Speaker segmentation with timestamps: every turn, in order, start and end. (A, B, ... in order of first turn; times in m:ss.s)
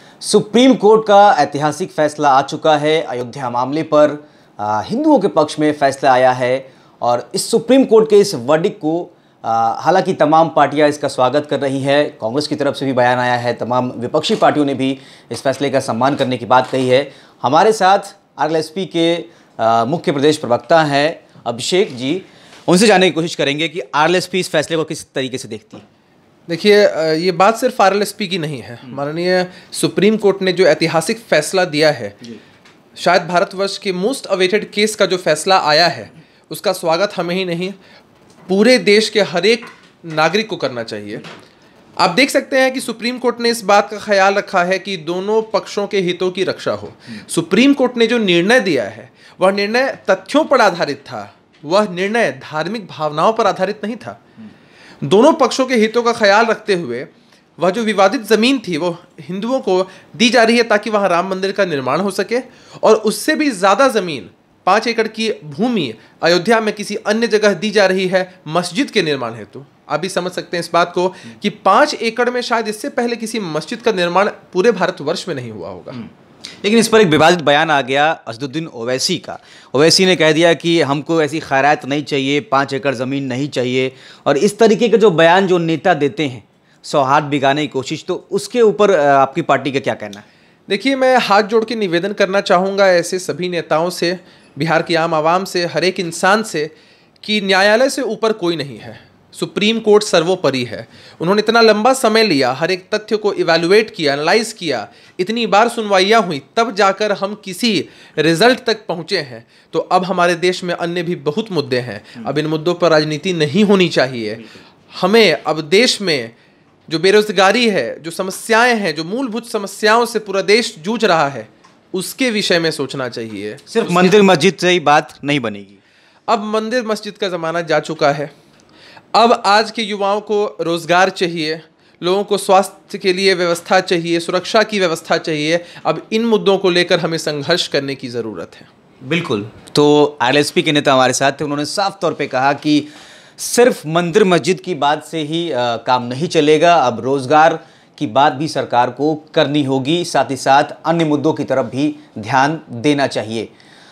0:00.2-0:25.8 A
0:26.5-0:32.2 B
0:33.0-0:37.8 B
0:38.5-0:41.3 B
0:42.0-0:54.2 B
0:55.0-1:16.0 B
1:16.6-1:30.2 A
1:30.7-1:56.3 B
1:56.9-2:04.2 B
2:03.7-2:05.8 A
2:06.3-2:08.3 B
2:09.1-2:18.7 B
2:19.0-2:33.5 A